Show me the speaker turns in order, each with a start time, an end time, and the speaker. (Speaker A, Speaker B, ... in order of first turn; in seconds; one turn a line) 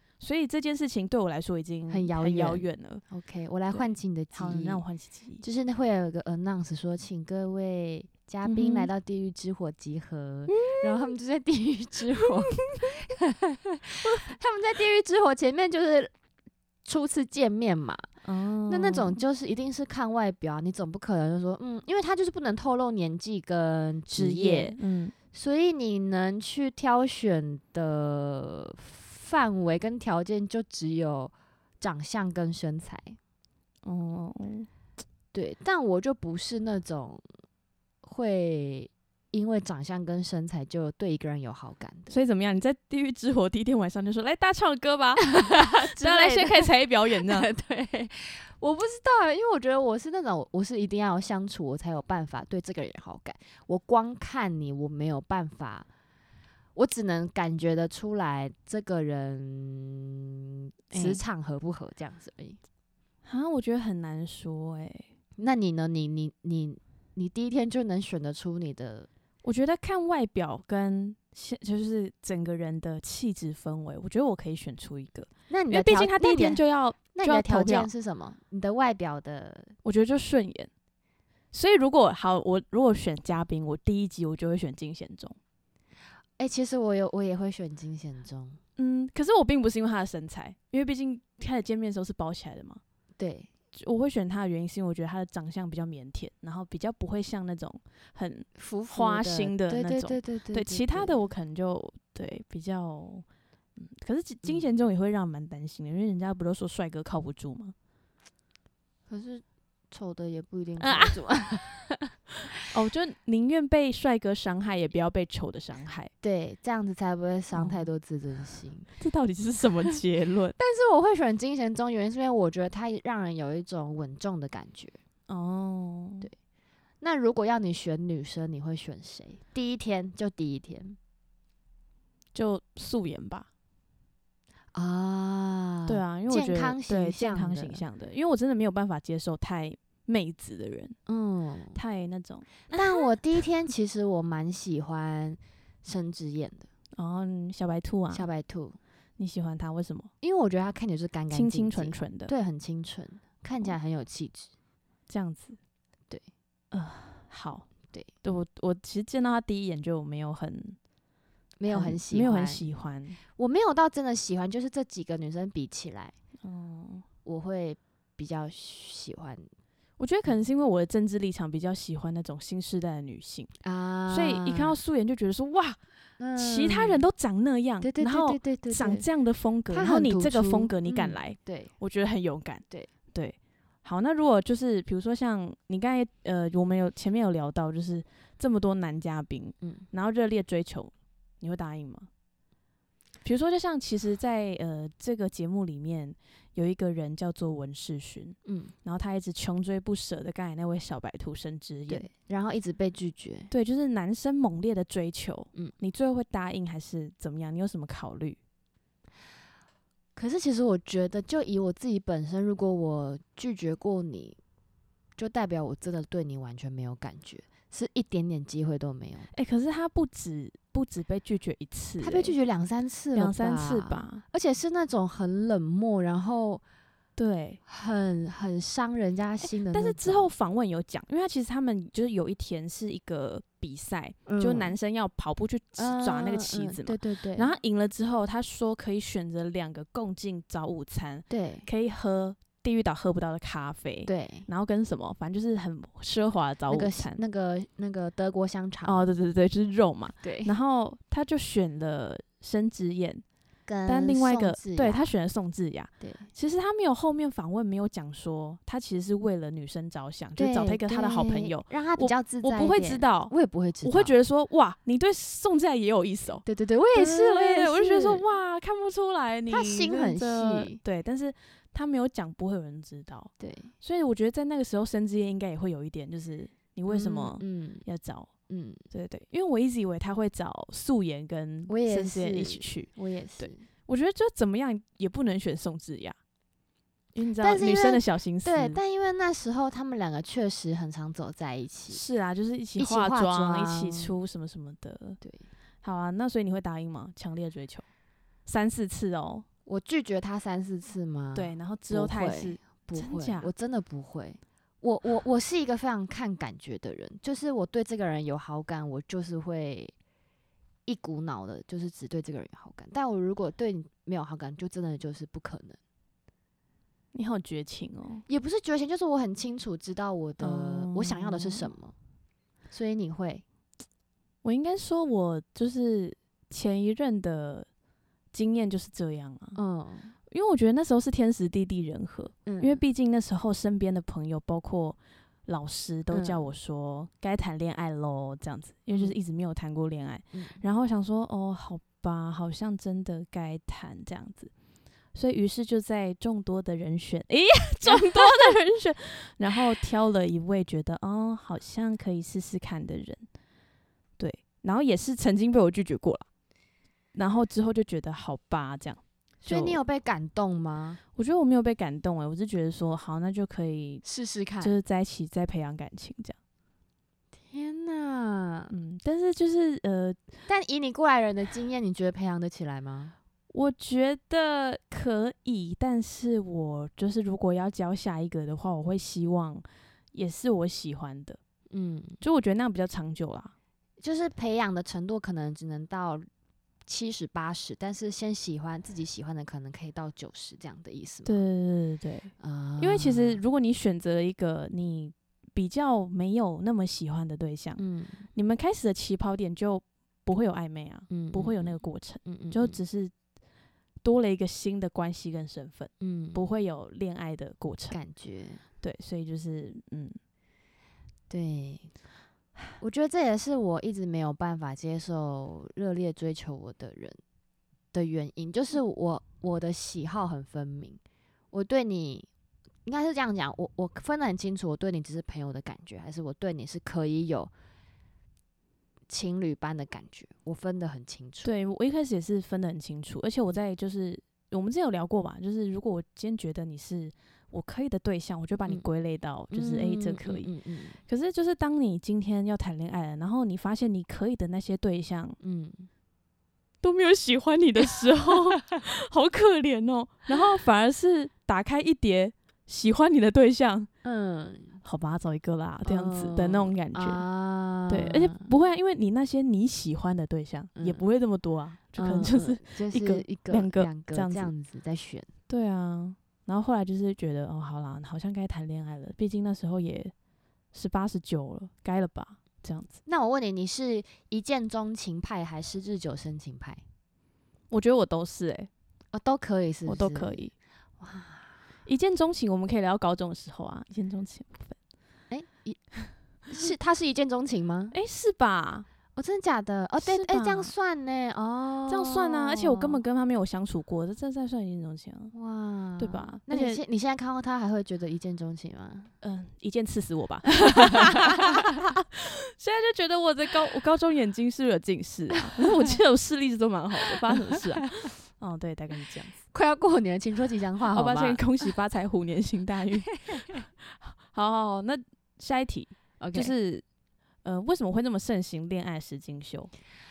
Speaker A: 0.2-3.0
Speaker B: 1.9-4.8
Speaker A: 3.7-5.4
Speaker B: 5.4-16.1
Speaker A: 8.4-8.9
Speaker A: 10.5-11.1
Speaker B: 16.8-18.1
Speaker A: 18.2-19.2
Speaker B: 18.7-24.8
Speaker A: 24.1-25.1
Speaker B: 25.3-33.2
Speaker A: 33.8-34.7
Speaker B: 35.3-37.2
Speaker B: 38.0-42.1
Speaker A: 42.1-47.5
Speaker B: 45.3-55.9
Speaker B: 56.7-62.6
Speaker A: 60.9-61.2
Speaker A: 63.2-65.1
Speaker B: 65.4-69.1
Speaker A: 69.4-77.9
Speaker B: 75.5-76.6
Speaker B: 77.1-79.7
Speaker A: 79.8-80.7
Speaker A: 81.5-85.4
Speaker B: 86.4-88.6
Speaker A: 88.8-92.8
Speaker B: 93.2-93.5
Speaker A: 93.7-103.2
Speaker B: 98.6-101.1
Speaker A: 103.8-107.7
Speaker B: 109.1-112.1
Speaker A: 110.8-111.2
Speaker A: 112.6-116.1
Speaker B: 116.2-118.9
Speaker A: 117.5-117.9
Speaker A: 119.0-120.5
Speaker B: 120.6-125.0
Speaker A: 125.3-126.3
Speaker B: 127.0-131.0
Speaker A: 132.3-133.5
Speaker B: 134.7-137.8
Speaker A: 135.9-141.0
Speaker B: 141.1-141.8
Speaker A: 141.7-143.1
Speaker B: 142.7-146.7
Speaker A: 146.9-148.3
Speaker B: 148.1-148.8
Speaker A: 149.2-150.1
Speaker B: 150.2-154.5
Speaker A: 151.3-152.3
Speaker A: 155.1-155.6
Speaker A: 156.7-157.7
Speaker A: 158.2-160.8
Speaker B: 161.6-162.6
Speaker A: 161.7-163.2
Speaker B: 163.3-166.1
Speaker A: 166.4-167.0
Speaker B: 167.2-169.5
Speaker A: 170.0-173.5
Speaker B: 173.6-174.8
Speaker A: 174.1-175.8
Speaker B: 176.2-177.0
Speaker A: 176.3-192.1
Speaker B: 177.8-179.1
Speaker B: 179.7-181.7
Speaker A: 193.2-202.1
Speaker B: 198.4-198.7
Speaker B: 201.9-203.5
Speaker A: 203.5-208.4
Speaker B: 210.2-214.4
Speaker B: 215.2-219.3
Speaker A: 219.3-222.3
Speaker B: 222.0-226.6
Speaker A: 223.1-224.2
Speaker A: 227.2-227.6
Speaker B: 227.7-230.3
Speaker A: 229.7-247.2
Speaker B: 234.2-234.7
Speaker B: 235.8-237.5
Speaker B: 241.3-241.7
Speaker B: 244.1-244.5
Speaker B: 246.7-249.0
Speaker A: 248.8-253.2
Speaker B: 250.2-250.5
Speaker B: 253.7-255.1
Speaker A: 253.8-266.4
Speaker B: 256.0-256.3
Speaker B: 260.4-264.1
Speaker B: 266.4-268.2
Speaker A: 266.9-278.3
Speaker B: 269.5-270.8
Speaker B: 273.4-273.7
Speaker B: 276.9-277.8
Speaker B: 278.5-278.8
Speaker A: 278.9-286.2
Speaker B: 281.7-283.6
Speaker A: 287.1-288.8
Speaker B: 287.4-292.0
Speaker A: 291.9-295.2
Speaker B: 292.8-294.1
Speaker A: 295.8-297.8
Speaker A: 298.4-299.4
Speaker B: 299.6-309.9
Speaker A: 301.3-303.5
Speaker B: 310.9-315.8
Speaker A: 317.1-318.2
Speaker B: 318.3-321.9
Speaker A: 320.4-321.7
Speaker B: 322.7-323.4
Speaker A: 324.4-327.7
Speaker A: 328.3-329.6
Speaker B: 329.5-330.1
Speaker A: 330.3-344.5
Speaker B: 332.4-332.8
Speaker B: 336.1-336.4
Speaker B: 338.9-339.1
Speaker B: 340.3-340.6
Speaker A: 345.1-353.2
Speaker B: 347.9-348.5
Speaker A: 354.2-356.2
Speaker A: 357.1-359.8
Speaker B: 359.4-361.0
Speaker A: 361.1-364.0
Speaker B: 364.0-364.8
Speaker A: 364.6-366.4
Speaker B: 367.5-368.7
Speaker A: 368.7-370.2
Speaker B: 370.5-373.1
Speaker A: 373.5-381.4
Speaker B: 381.7-382.2
Speaker A: 382.2-383.5
Speaker B: 384.0-386.2
Speaker B: 386.9-391.4
Speaker A: 391.2-397.8
Speaker B: 392.4-393.4
Speaker B: 397.8-398.3
Speaker A: 398.3-403.1
Speaker B: 401.1-401.7
Speaker B: 402.2-402.8
Speaker A: 404.0-408.0
Speaker B: 406.0-406.5
Speaker B: 407.9-408.6
Speaker A: 408.8-410.2
Speaker B: 411.3-411.9
Speaker B: 412.8-417.2
Speaker B: 417.9-421.0
Speaker B: 421.5-422.3
Speaker B: 422.9-427.5
Speaker B: 429.1-431.5
Speaker A: 431.4-440.5
Speaker B: 439.5-441.0
Speaker A: 441.1-445.4
Speaker B: 445.4-445.9
Speaker A: 446.8-453.9
Speaker B: 454.0-454.8
Speaker A: 454.8-457.2
Speaker B: 455.8-458.5
Speaker A: 457.9-464.5
Speaker B: 460.7-461.0
Speaker B: 461.9-465.3
Speaker A: 465.5-470.1
Speaker A: 470.7-473.0
Speaker B: 473.1-476.8
Speaker A: 477.7-478.7
Speaker B: 479.1-480.4
Speaker A: 479.9-480.5
Speaker B: 481.0-481.5
Speaker A: 481.9-484.8
Speaker B: 485.3-485.8
Speaker B: 486.5-487.9
Speaker A: 487.9-488.9
Speaker B: 489.1-493.0
Speaker A: 490.0-490.7
Speaker A: 491.9-495.3
Speaker B: 495.3-499.1
Speaker A: 496.0-496.8
Speaker A: 499.2-509.4
Speaker B: 500.6-501.7
Speaker B: 505.5-505.9
Speaker B: 507.3-507.8
Speaker B: 509.5-511.4
Speaker A: 510.9-516.8
Speaker B: 513.2-513.5
Speaker B: 516.2-516.5
Speaker A: 517.4-519.7